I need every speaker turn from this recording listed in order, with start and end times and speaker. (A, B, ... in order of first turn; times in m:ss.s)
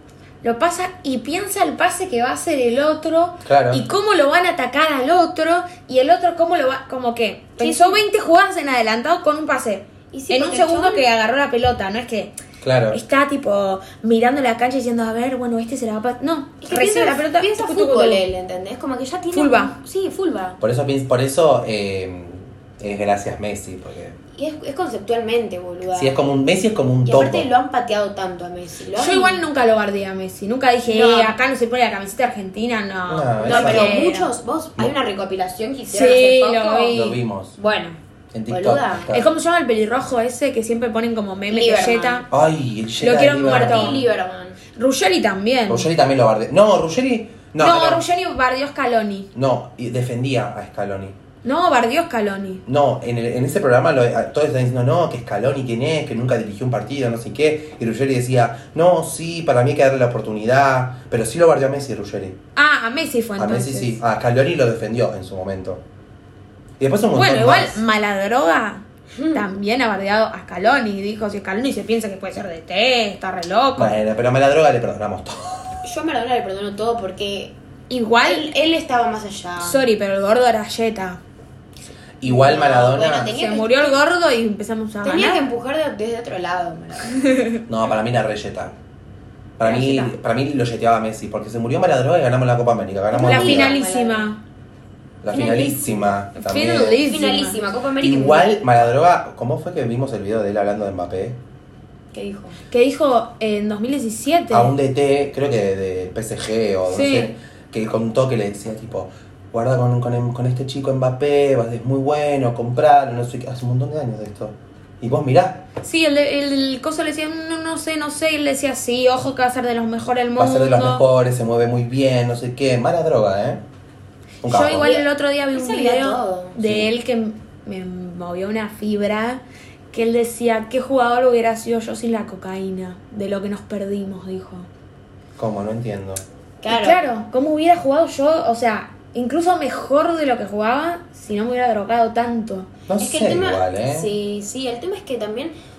0:00.4-0:12.3 A
0:03.4-0:03.8 B
0:07.6-0:08.0 C
0:10.1-0:11.1 C
0:12.6-0:13.0 B
0:12.9-0:18.2 A
0:16.6-0:20.6 C
0:19.3-0:19.8 A
0:20.6-0:24.2 B
0:24.4-0:26.2 C
0:25.9-0:27.5 B
0:27.0-0:29.4 C
0:29.0-0:34.3 A
0:30.9-0:31.4 C
0:33.1-0:34.0 B
0:33.4-0:37.0 C
0:35.9-0:37.2 A
0:36.9-0:37.6 B
0:37.6-0:38.0 C
0:38.3-0:39.3 B
0:38.5-0:39.1 C
0:39.1-0:42.3 A
0:41.5-0:42.3 C
0:42.3-0:44.1 B
0:43.0-0:44.0 A
0:43.4-0:44.6 C
0:44.8-0:45.9 A
0:45.7-0:48.0 B
0:47.6-0:49.3 A
0:49.3-0:51.1 B
0:51.4-0:52.6 A
0:52.6-1:02.4 B
1:02.6-1:04.0 A
1:03.4-1:05.8 B
1:06.8-1:07.8 B
1:07.1-1:14.0 A
1:09.1-1:09.4 C
1:13.8-1:15.8 B
1:15.8-1:17.5 C
1:17.9-1:18.5 A
1:18.2-1:19.8 C
1:19.6-1:21.2 A
1:22.2-1:23.3 B
1:22.2-1:24.0 C
1:23.2-1:25.4 A
1:25.0-1:27.2 C
1:27.1-1:27.6 A
1:27.7-1:28.8 B
1:29.6-1:33.8 B
1:29.6-1:30.1 C
1:29.7-1:30.1 A
1:33.1-1:34.3 C
1:33.2-1:34.4 A
1:35.2-1:37.0 B
1:35.3-1:36.1 C
1:36.4-1:37.6 A
1:37.0-1:38.7 C
1:38.0-1:41.4 B
1:42.1-1:42.6 C
1:42.7-1:44.7 A
1:44.5-1:55.6 B
1:46.9-1:47.3 A
1:55.8-2:01.0 A
2:00.4-2:03.6 B
2:04.4-2:04.9 B
2:04.4-2:14.7 A
2:04.8-2:06.6 C
2:06.6-2:06.9 B
2:15.4-2:16.2 B
2:16.6-2:17.0 C
2:16.7-2:22.7 A
2:22.9-2:24.1 B
2:23.0-2:25.6 C